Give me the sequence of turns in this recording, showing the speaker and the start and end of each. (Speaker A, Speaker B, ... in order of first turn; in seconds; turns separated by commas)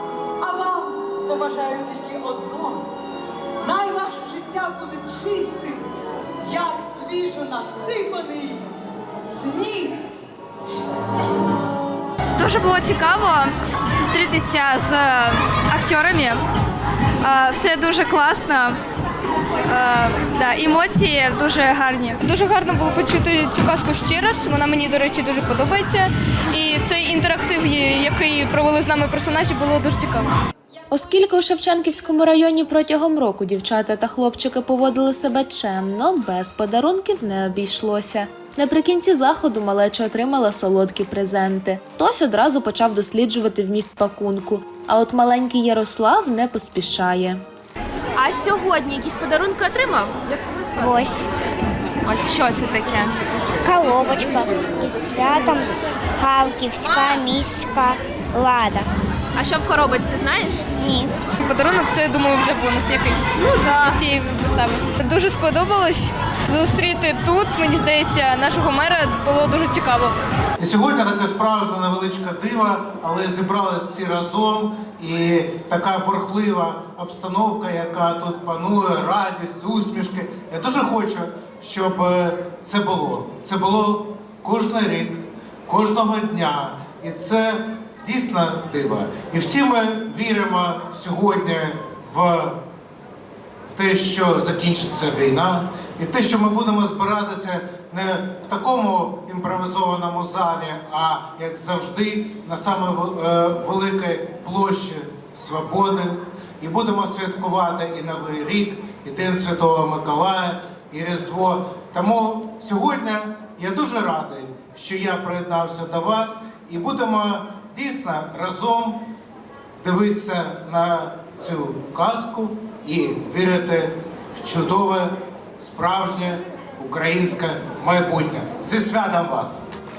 Speaker A: 0.4-2.8, Speaker A: 3.6-5.8, Speaker A: 6.4-8.7, Speaker A: 9.2-10.0, Speaker B: 12.3-16.4, Speaker B: 17.2-18.8, Speaker B: 19.6-22.2, Speaker C: 22.2-30.3, Speaker D: 30.9-47.4, Speaker E: 48.2-50.1, Speaker F: 50.8-51.2, Speaker E: 52.0-53.2, Speaker F: 53.6-58.7, Speaker E: 59.4-60.7, Speaker F: 60.8-61.1, Speaker C: 61.4-70.2, Speaker G: 70.6-92.6, Speaker G: 93.7-119.0, Speaker G: 119.8-129.6